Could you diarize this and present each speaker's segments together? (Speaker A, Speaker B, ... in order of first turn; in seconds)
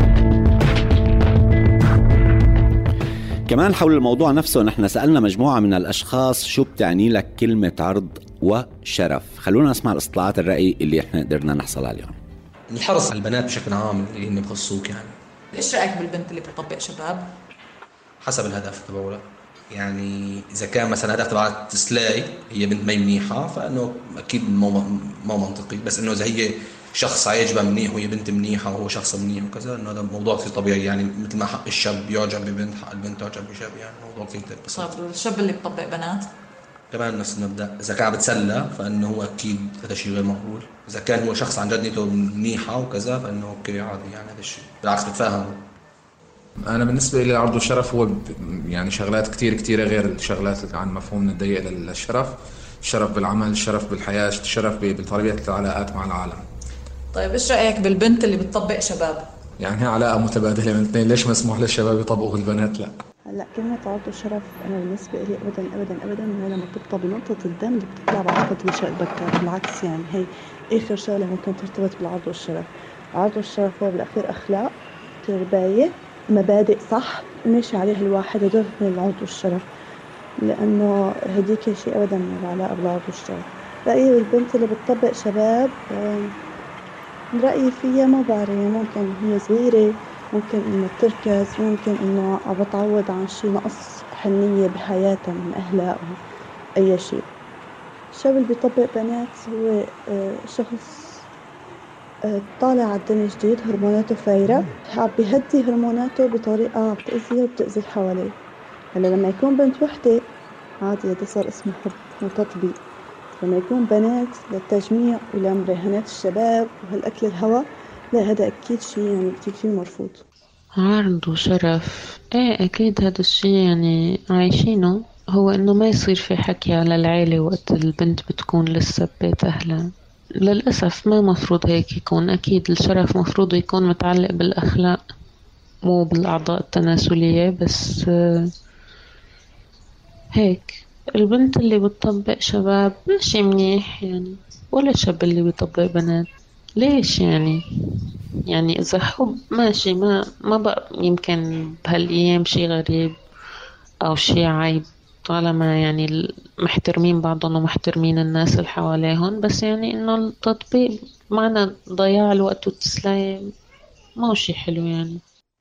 Speaker A: 3.5-12.2
Speaker B: 12.7-15.2, 18.2-34.9, 36.9-45.6
Speaker C: 15.5-17.3, 34.7-36.3, 57.1-59.3
Speaker D: 46.7-56.4, 59.6-63.0
Speaker E: 63.3-79.7, 80.4-86.3, 87.3-96.2, 96.8-97.3, 98.1-101.3, 102.2-108.4, 109.0-110.3, 110.8-112.8, 113.4-120.2
Speaker F: 120.8-129.9, 130.4-135.0, 135.9-138.5, 140.3-146.3, 146.8-153.2, 154.1-163.5, 164.2-165.2